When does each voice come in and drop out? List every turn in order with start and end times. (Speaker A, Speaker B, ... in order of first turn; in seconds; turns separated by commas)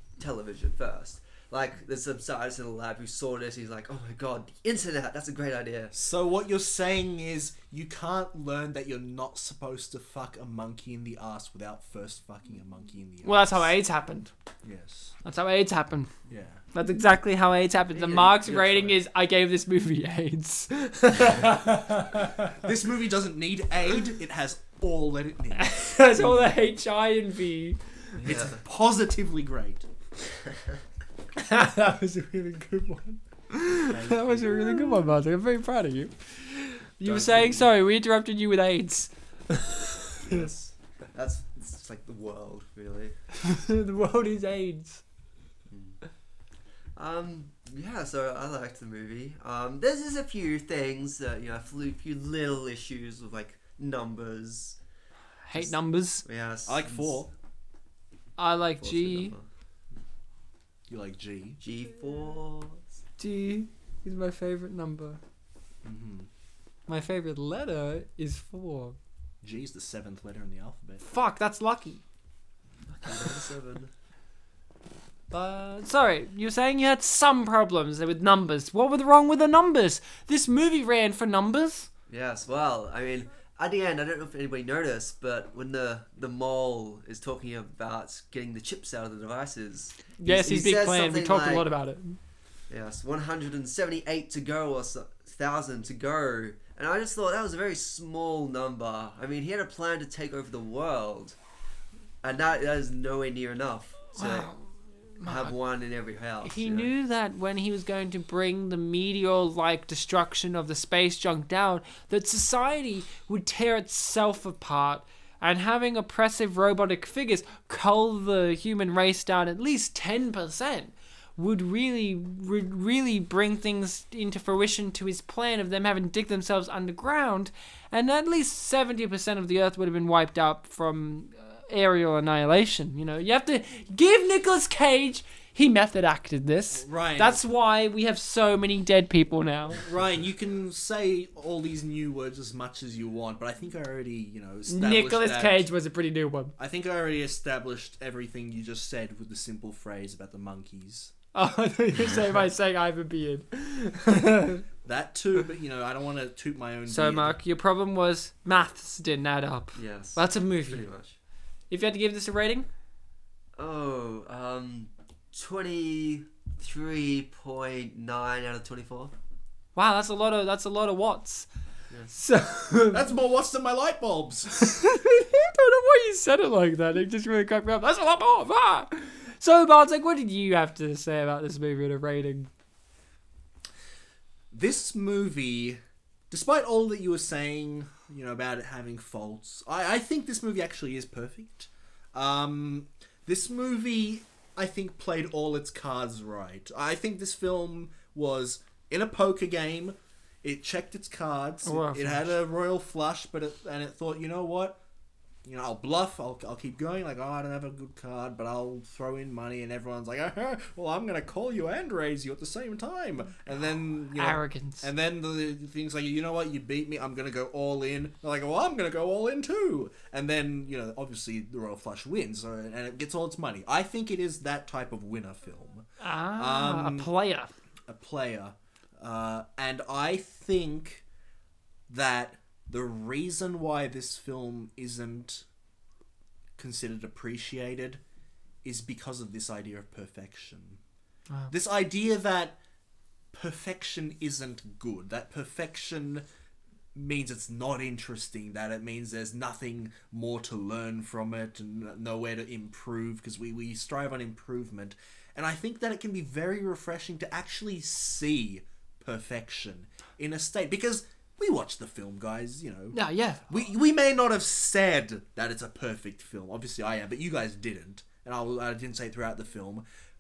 Speaker A: 0.2-6.0, Speaker B: 5.9-13.7, Speaker C: 13.2-14.3, Speaker B: 14.6-15.2, Speaker C: 15.2-16.1, Speaker B: 16.3-16.6, Speaker C: 16.7-22.5, Speaker A: 17.9-19.0, Speaker B: 22.5-26.3, Speaker C: 25.6-27.8, Speaker A: 28.2-28.6, Speaker B: 28.2-29.9, Speaker C: 31.4-39.8, Speaker B: 33.8-34.9, Speaker B: 37.0-37.7, Speaker A: 40.2-43.1, Speaker C: 43.4-45.0, Speaker A: 45.7-46.0, Speaker A: 47.0-54.8, Speaker C: 55.5-56.2, Speaker A: 55.5-57.2, Speaker B: 56.7-57.3, Speaker C: 58.4-59.3, Speaker A: 58.8-59.5, Speaker B: 60.9-61.6, Speaker A: 61.6-62.9, Speaker C: 63.2-65.2, Speaker B: 65.8-66.3, Speaker C: 66.9-69.0, Speaker B: 69.4-71.0, Speaker C: 71.0-72.0, Speaker A: 73.0-73.9, Speaker C: 75.3-81.9, Speaker A: 82.1-91.7, Speaker C: 90.2-92.2, Speaker A: 92.7-101.4, Speaker A: 102.2-104.5, Speaker C: 104.2-104.6, Speaker C: 105.2-105.5, Speaker A: 105.2-106.9, Speaker C: 106.4-139.8, Speaker B: 136.7-137.4, Speaker B: 139.7-145.7, Speaker C: 144.7-146.6, Speaker B: 146.6-151.1, Speaker C: 151.3-154.6, Speaker B: 154.8-157.4, Speaker C: 156.9-160.8, Speaker A: 159.8-161.2, Speaker C: 161.7-162.7, Speaker A: 163.6-169.1, Speaker C: 169.8-171.5, Speaker C: 172.1-173.1, Speaker B: 172.9-174.6, Speaker C: 174.5-182.5, Speaker B: 184.5-204.8, Speaker C: 201.7-202.3, Speaker B: 205.4-225.8, Speaker C: 214.2-214.9, Speaker C: 226.0-227.5, Speaker B: 226.4-227.1, Speaker B: 227.9-231.0, Speaker B: 231.9-235.4, Speaker B: 236.6-238.0, Speaker B: 238.6-240.8, Speaker B: 241.5-242.6, Speaker B: 243.3-246.2, Speaker B: 246.9-263.0, Speaker C: 262.9-263.4, Speaker B: 263.5-269.8